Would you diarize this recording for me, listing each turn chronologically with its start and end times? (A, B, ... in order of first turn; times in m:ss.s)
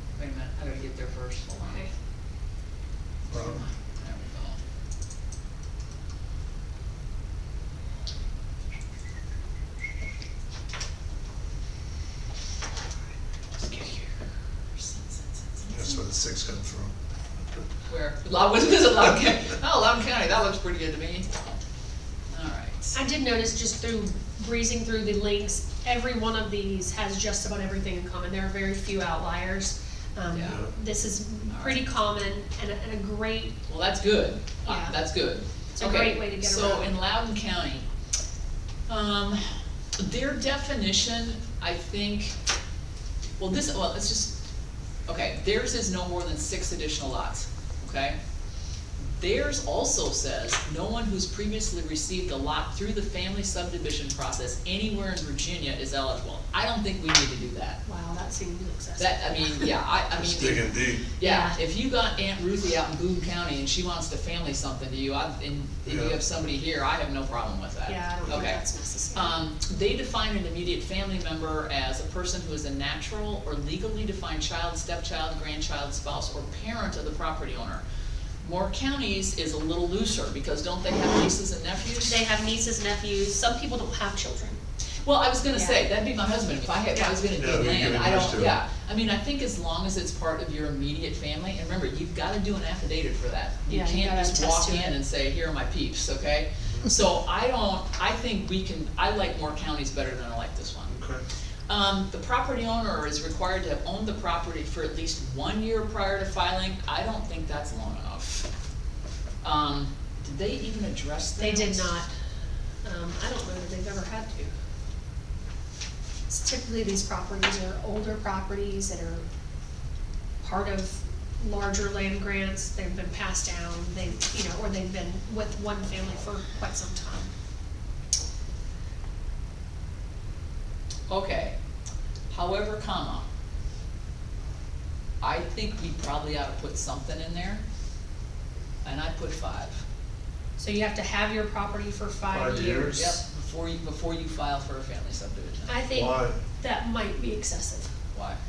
0:00.2-0:01.9 A
0:01.6-0:01.9 B
0:03.3-0:03.6 C
0:03.3-0:04.6 A
0:13.6-0:14.2 A
0:14.8-0:15.8 A
0:15.7-0:17.6 C
0:17.9-0:21.6 A
0:22.3-0:23.0 A
0:22.9-0:33.6 B
0:30.3-0:30.6 A
0:30.4-0:30.7 C
0:31.5-0:31.8 A
0:33.7-0:37.9 A
0:34.7-0:35.0 B
0:35.8-0:36.9 B
0:38.9-0:39.4 A
0:40.0-0:42.4 A
0:43.4-0:44.4 A
0:45.1-0:48.2 A
0:49.0-0:57.8 A
0:57.8-0:59.7 B
0:59.0-1:08.6 A
1:00.2-1:01.1 C
1:01.2-1:01.6 B
1:05.9-1:06.2 C
1:07.9-1:09.4 B
1:09.1-1:17.8 A
1:18.4-1:22.2 A
1:22.0-1:24.6 B
1:25.0-1:40.9 A
1:25.5-1:25.8 B
1:27.4-1:28.6 C
1:33.7-1:34.9 B
1:40.9-1:41.2 C
1:41.7-1:48.5 A
1:49.4-1:51.9 A
1:51.4-1:52.1 B
1:52.8-1:54.5 B
1:56.3-1:59.2 B
2:00.4-2:07.3 B
2:11.1-2:11.6 A
2:12.3-2:13.3 A
2:15.2-2:17.6 A
2:18.8-2:19.8 A
2:20.6-2:23.2 B
2:22.3-2:23.0 C
2:22.9-2:25.8 A
2:25.7-2:27.9 B
2:25.9-2:26.4 C
2:28.1-2:28.4 A